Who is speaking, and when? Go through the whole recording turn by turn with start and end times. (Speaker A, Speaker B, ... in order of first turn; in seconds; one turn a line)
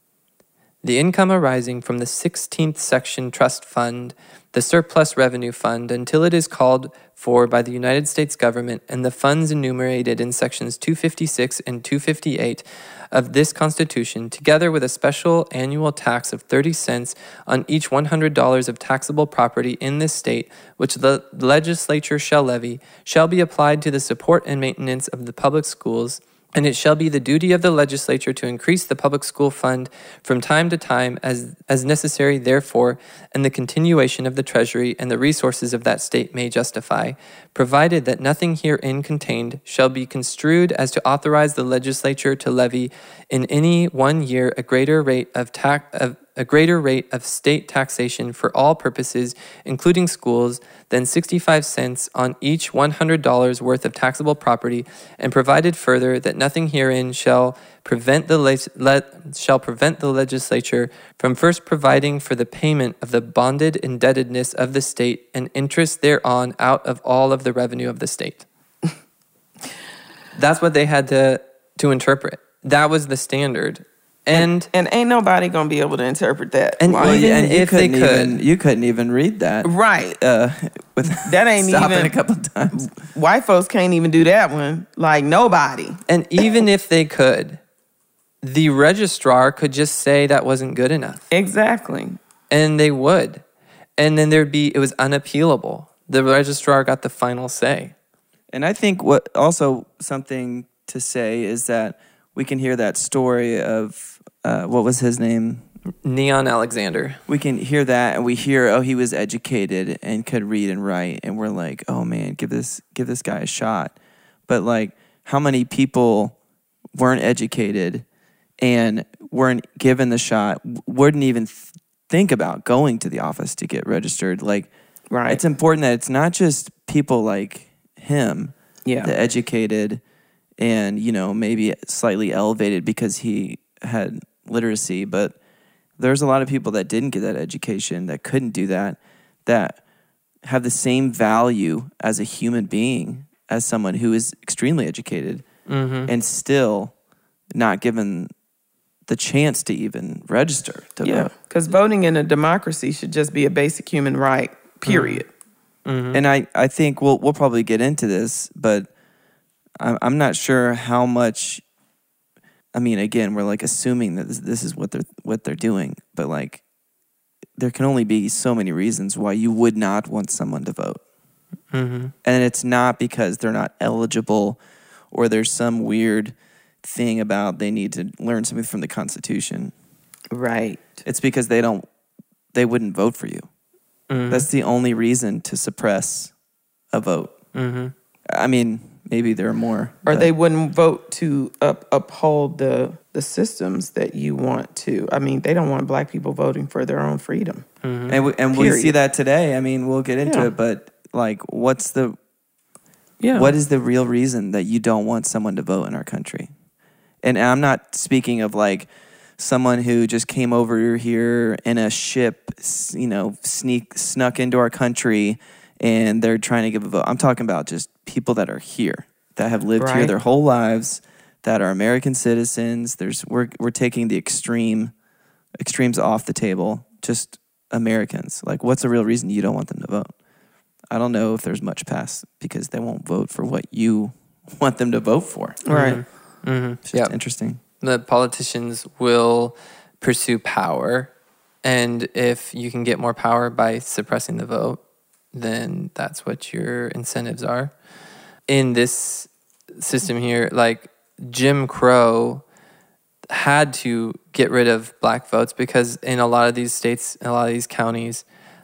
Speaker A: 0.8-68.5
Speaker A: 70.3-74.7
Speaker B: 74.3-77.3
Speaker A: 76.8-78.4
Speaker C: 76.9-82.9
Speaker B: 79.6-80.2
Speaker B: 81.2-82.1
Speaker B: 82.7-86.0
Speaker A: 86.1-87.6
Speaker A: 88.4-91.3
Speaker B: 91.3-92.2
Speaker A: 92.5-93.4
Speaker A: 94.0-97.9
Speaker C: 98.5-105.6
Speaker A: 106.0-107.2
Speaker C: 107.3-114.0
Speaker C: 114.5-116.4
Speaker C: 117.0-118.0
Speaker C: 118.6-124.7
Speaker B: 125.1-125.4
Speaker C: 125.3-130.0
Speaker B: 128.8-129.1
Speaker C: 130.6-135.3
Speaker C: 136.0-139.8
Speaker C: 140.4-145.4
Speaker A: 145.7-146.1
Speaker C: 146.1-146.9
Speaker C: 147.5-148.3
Speaker C: 149.1-151.3
Speaker B: 151.0-155.3
Speaker A: 154.9-155.2
Speaker A: 155.8-156.2
Speaker C: 156.1-158.9
Speaker C: 159.8-161.6
Speaker C: 162.7-166.6
Speaker C: 167.6-171.0
Speaker A: 171.7-172.1
Speaker C: 172.2-174.6
Speaker C: 175.1-179.7
Speaker B: 180.3-181.0
Speaker C: 181.1-181.8
Speaker C: 182.5-183.5
Speaker A: 184.1-184.5
Speaker C: 184.3-186.3
Speaker C: 186.9-187.3
Speaker A: 187.5-187.9
Speaker C: 188.3-190.3
Speaker B: 190.1-197.7
Speaker A: 197.8-198.2
Speaker C: 198.1-202.2
Speaker B: 198.5-198.9
Speaker B: 203.2-203.5
Speaker C: 203.3-206.5
Speaker C: 207.2-224.9
Speaker B: 219.8-220.1
Speaker C: 225.6-230.1
Speaker C: 230.9-235.7
Speaker B: 235.7-236.0
Speaker A: 235.7-237.2
Speaker C: 236.9-237.6
Speaker A: 237.8-241.1
Speaker A: 241.6-244.8
Speaker A: 245.3-247.7
Speaker A: 248.5-252.4
Speaker A: 253.3-258.2